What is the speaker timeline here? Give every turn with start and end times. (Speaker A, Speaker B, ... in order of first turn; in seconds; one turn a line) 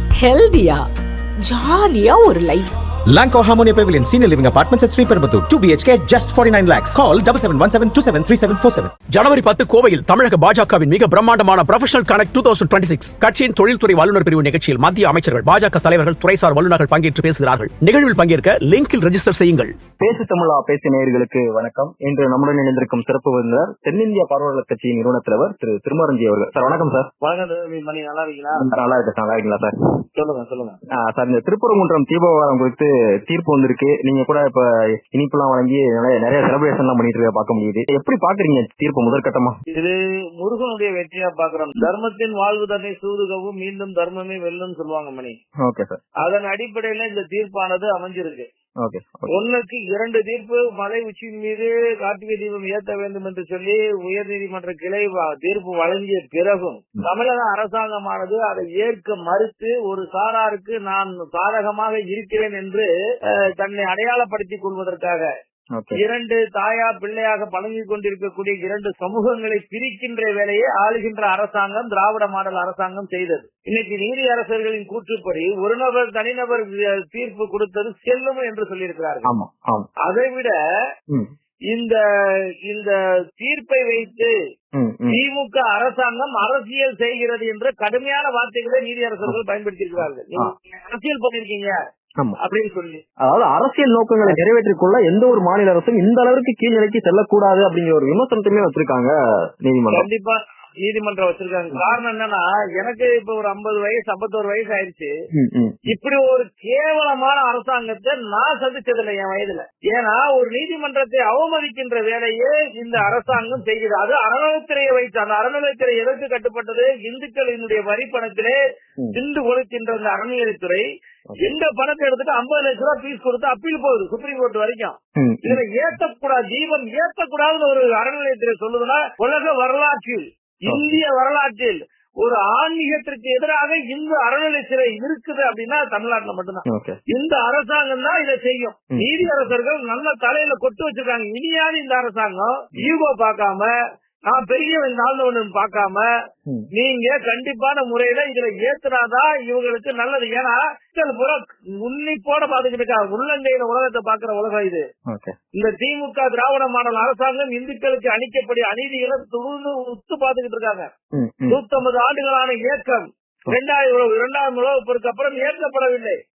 Speaker A: 0.2-0.8
Speaker A: 1.4-2.7
Speaker B: 3.1-8.9
Speaker C: 9.1-19.7
Speaker D: 20.0-27.1
Speaker E: 27.2-28.6
Speaker D: 28.6-29.7
Speaker E: 30.1-30.8
Speaker D: 30.9-39.5
Speaker E: 39.7-45.3
Speaker D: 45.6-46.0
Speaker E: 46.2-48.5
Speaker D: 48.8-49.3
Speaker E: 49.3-62.9
Speaker E: 63.6-65.3
Speaker D: 65.8-66.0
Speaker E: 66.0-79.3
Speaker D: 79.2-79.9
Speaker E: 80.0-80.5
Speaker E: 81.7-84.3
Speaker D: 84.8-85.2
Speaker E: 85.1-91.8
Speaker D: 90.0-90.5
Speaker E: 92.4-93.0
Speaker D: 93.2-100.1
Speaker E: 99.9-105.1
Speaker D: 105.3-105.8
Speaker E: 105.9-118.6
Speaker E: 119.1-120.8
Speaker E: 121.4-143.7
Speaker D: 125.2-125.6
Speaker D: 130.7-131.0
Speaker D: 136.7-137.0
Speaker D: 138.9-139.3
Speaker E: 144.3-146.1
Speaker E: 146.8-154.8
Speaker D: 155.1-155.3
Speaker E: 155.5-160.9
Speaker D: 161.1-161.6
Speaker E: 161.5-166.2